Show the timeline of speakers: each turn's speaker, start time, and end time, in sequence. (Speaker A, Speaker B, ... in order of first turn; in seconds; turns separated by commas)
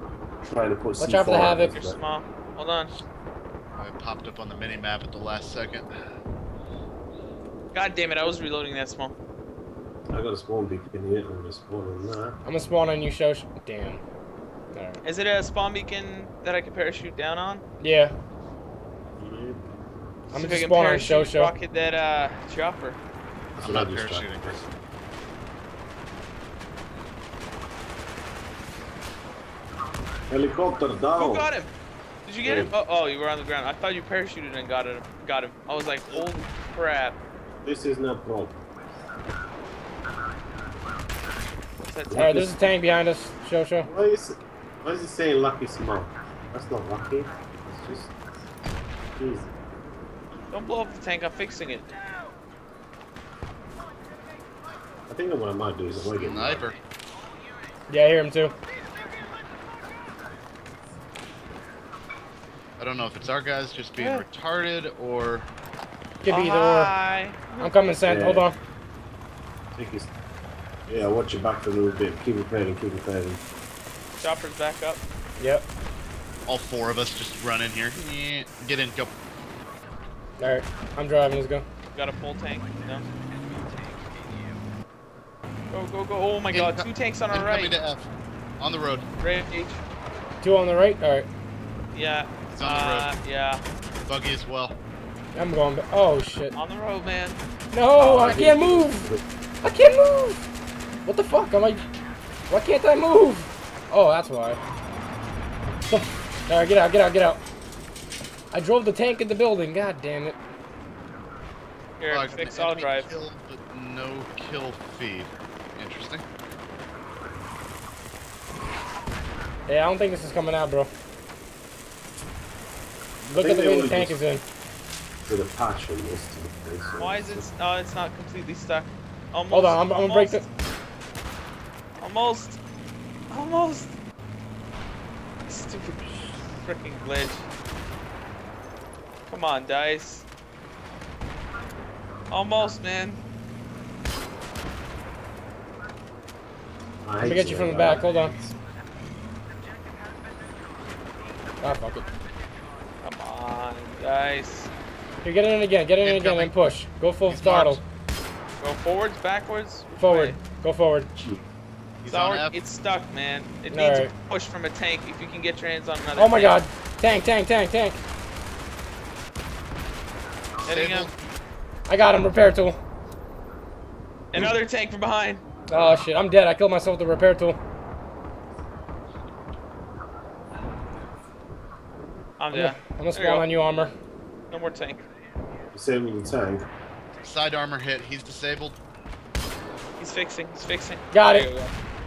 Speaker A: 0.4-2.0, Speaker B: 1.0-1.8, Speaker C: 1.7-2.9, Speaker D: 3.8-5.9, Speaker C: 7.7-9.1, Speaker A: 10.1-12.4, Speaker B: 12.4-14.0, Speaker B: 14.7-15.0, Speaker C: 15.0-17.6, Speaker B: 17.8-18.1, Speaker A: 19.2-19.6, Speaker C: 20.3-23.0, Speaker B: 20.3-21.5, Speaker A: 23.5-24.6, Speaker D: 23.6-24.6, Speaker A: 30.3-31.5, Speaker C: 31.2-31.7, Speaker C: 32.3-37.2, Speaker A: 32.4-32.7, Speaker A: 37.6-38.7, Speaker C: 41.8-42.5, Speaker A: 42.1-42.5, Speaker B: 42.1-43.9, Speaker A: 43.8-48.1, Speaker A: 49.2-49.5, Speaker C: 50.5-51.9, Speaker A: 55.1-56.7, Speaker D: 56.1-56.8, Speaker B: 57.9-58.5, Speaker D: 62.8-65.5, Speaker C: 64.0-64.2, Speaker B: 66.2-66.9, Speaker C: 66.3-67.7, Speaker B: 67.6-68.6, Speaker A: 68.0-68.5, Speaker A: 69.7-70.1, Speaker A: 70.9-73.4, Speaker C: 74.2-75.0, Speaker B: 75.4-75.7, Speaker D: 76.5-79.1, Speaker B: 80.4-81.7, Speaker C: 81.9-83.0, Speaker C: 85.7-87.8, Speaker D: 86.5-88.1, Speaker D: 88.6-89.1, Speaker C: 89.2-89.8, Speaker B: 90.4-91.3, Speaker C: 91.9-93.6, Speaker D: 92.5-93.1, Speaker D: 94.0-94.8, Speaker B: 95.3-96.5, Speaker C: 96.5-97.4, Speaker B: 97.7-99.1, Speaker A: 98.0-99.2, Speaker B: 99.6-100.4, Speaker B: 101.0-101.9, Speaker B: 102.5-104.6, Speaker B: 105.9-107.4, Speaker B: 108.5-110.4, Speaker C: 112.0-113.1, Speaker D: 112.1-116.2, Speaker B: 119.7-120.9, Speaker A: 123.2-124.2, Speaker B: 123.3-124.4, Speaker A: 125.3-127.5, Speaker C: 127.0-130.5, Speaker B: 129.5-130.4, Speaker C: 132.0-132.6, Speaker C: 133.3-133.9, Speaker C: 135.5-137.5, Speaker C: 139.3-140.3, Speaker C: 142.3-143.2, Speaker A: 147.0-148.6, Speaker B: 147.2-148.3, Speaker B: 151.6-152.0, Speaker C: 153.0-154.7, Speaker B: 155.2-157.8, Speaker D: 156.0-156.5, Speaker D: 157.3-157.8, Speaker C: 158.6-160.4, Speaker B: 160.0-161.1, Speaker A: 161.2-161.4, Speaker D: 162.0-162.6, Speaker C: 162.1-166.6, Speaker B: 163.7-164.1, Speaker B: 166.2-168.0, Speaker C: 170.7-171.1, Speaker D: 170.7-171.1, Speaker B: 171.9-172.8, Speaker C: 174.3-175.4, Speaker B: 175.7-177.6, Speaker C: 182.4-183.4, Speaker B: 182.5-183.9, Speaker C: 184.5-185.0, Speaker A: 185.7-186.7, Speaker D: 187.2-188.8, Speaker C: 190.0-191.7, Speaker B: 191.1-191.5